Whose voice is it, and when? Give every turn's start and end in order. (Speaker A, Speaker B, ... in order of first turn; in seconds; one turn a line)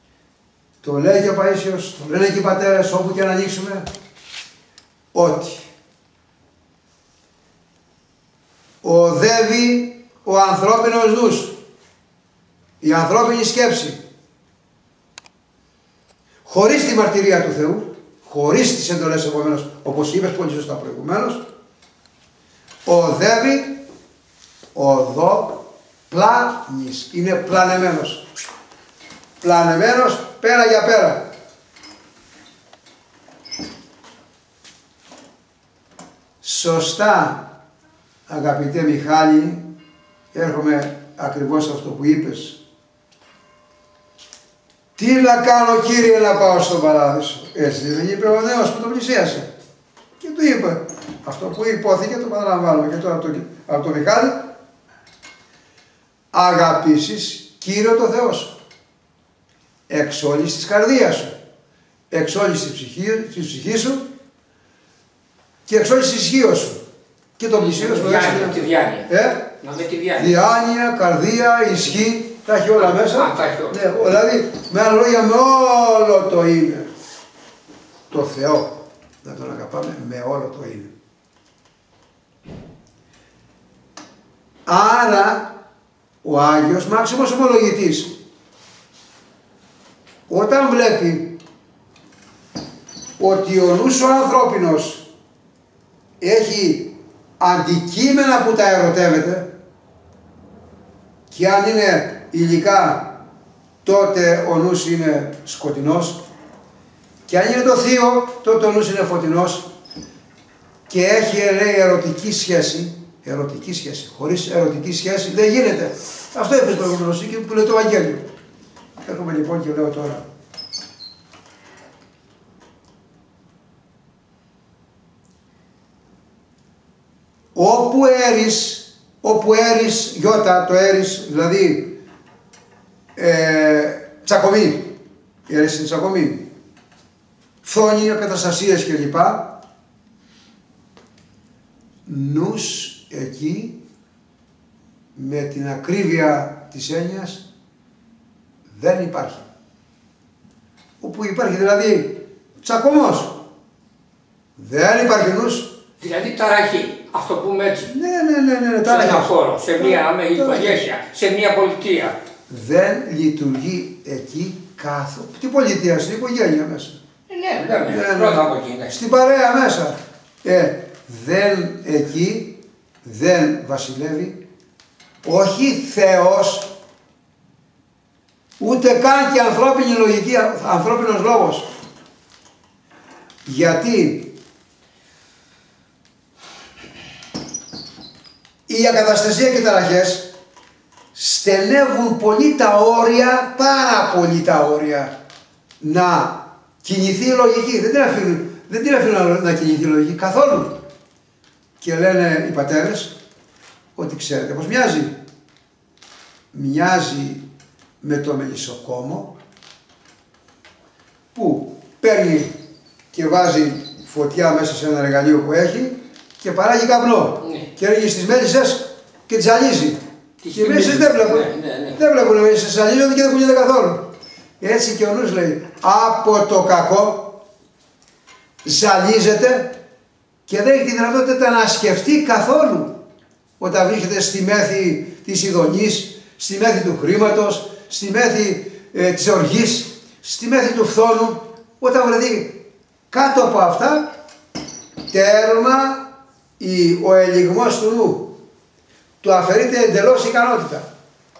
Speaker A: 0.8-3.9
Speaker A: 5.1-5.7
Speaker A: 8.8-11.6
Speaker A: 12.8-14.0
Speaker A: 16.4-21.4
Speaker A: 22.9-23.8
Speaker A: 24.7-28.3
Speaker A: 29.4-31.3
Speaker A: 36.4-37.5
Speaker A: 38.3-39.7
Speaker A: 40.3-42.6
Speaker A: 45.0-49.5
Speaker A: 50.2-54.4
Speaker A: 56.3-58.5
Speaker A: 59.9-61.3
Speaker A: 62.1-64.0
Speaker A: 65.7-66.8
Speaker A: 67.4-69.5
Speaker B: 67.6-69.1
Speaker B: 69.6-70.3
Speaker A: 70.2-76.9
Speaker B: 72.8-73.8
Speaker A: 78.1-80.9
Speaker A: 84.7-85.5
Speaker A: 86.2-88.1
Speaker A: 90.3-91.3
Speaker A: 93.2-95.0
Speaker A: 96.2-99.5
Speaker A: 101.3-103.2
Speaker A: 103.8-106.2
Speaker A: 107.3-109.7
Speaker A: 110.9-118.2
Speaker A: 119.0-120.2
Speaker A: 127.5-131.9
Speaker A: 133.1-134.9
Speaker A: 135.5-136.4
Speaker A: 137.6-139.5
Speaker A: 142.1-143.8
Speaker A: 145.1-147.4
Speaker A: 148.7-149.4
Speaker A: 151.0-153.4
Speaker A: 154.6-155.7
Speaker B: 156.0-157.9
Speaker A: 157.9-160.8
Speaker B: 158.8-162.2
Speaker A: 162.5-167.0
Speaker B: 167.3-168.9
Speaker A: 167.9-174.4
Speaker A: 175.2-176.7
Speaker A: 178.6-181.7
Speaker A: 183.4-184.3
Speaker A: 188.7-190.3
Speaker A: 191.1-195.1
Speaker A: 195.8-200.8
Speaker A: 201.8-203.1
Speaker A: 203.9-205.2
Speaker A: 206.5-207.4
Speaker A: 208.0-209.3
Speaker A: 211.3-212.5
Speaker A: 213.1-220.0
Speaker B: 220.4-222.0
Speaker A: 220.5-224.1
Speaker A: 224.6-227.4
Speaker A: 228.6-229.7
Speaker A: 230.5-232.9
Speaker A: 233.6-242.6
Speaker A: 243.1-244.1
Speaker A: 245.1-246.1
Speaker A: 246.6-248.3
Speaker A: 249.2-250.9